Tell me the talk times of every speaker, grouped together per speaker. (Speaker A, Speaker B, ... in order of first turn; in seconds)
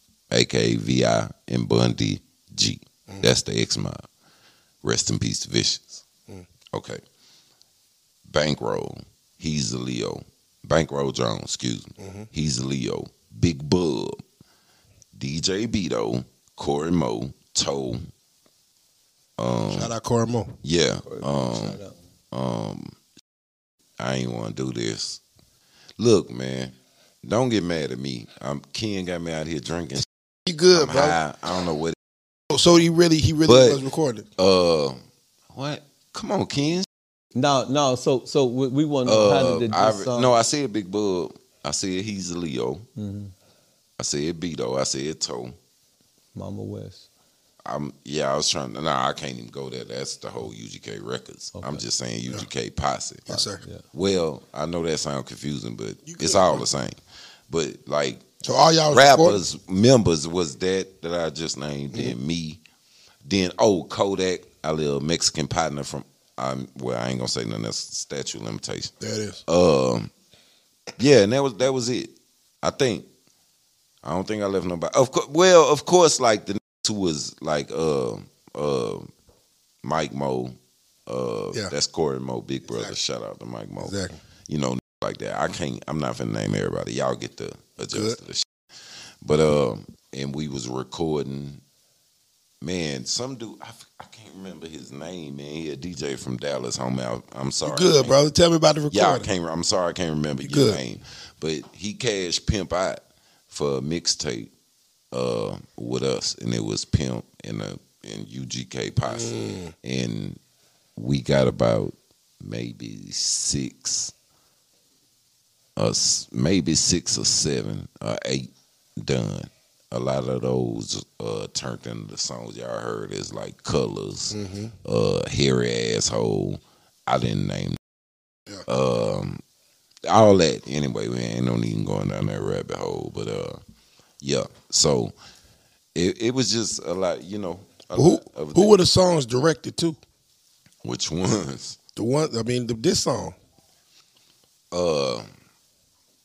Speaker A: 0.3-4.0, 4.8-6.0, 6.7-7.0, 8.3-14.2, 15.2-18.0, 19.4-19.9, 20.6-21.8, 22.3-22.9, 24.0-25.2, 26.0-30.1, 30.7-32.0, 33.5-33.8, 34.4-35.0, 35.5-36.9, 39.0-42.9, 44.0-45.5, 47.6-53.4, 53.9-57.0, 57.5-58.3, 58.9-62.6, 63.3-68.9, 69.5-70.1, 71.0-73.1, 74.0-79.1, 79.8-80.6, 81.1-84.0, 84.5-88.5, 89.2-91.6, 92.6-98.2, 98.9-104.5, 105.1-110.4, 111.0-114.1, 115.8-127.8, 128.7-129.4, 130.1-133.6, 134.2-135.1, 135.9-138.8, 140.8-141.8, 144.7-145.3
Speaker B: 12.0-12.3, 19.7-20.5, 30.5-31.2, 32.5-34.3, 53.3-53.6, 56.1-56.7, 58.4-59.4, 69.0-69.4, 82.7-83.0, 83.8-84.2, 87.9-88.2, 97.6-99.3, 100.4-100.8, 109.1-109.7, 124.3-124.7, 137.9-140.0, 142.0-143.3
Speaker C: 21.0-21.9, 37.3-40.3, 43.0-43.3, 46.4-47.1, 51.5-51.8, 53.4-53.8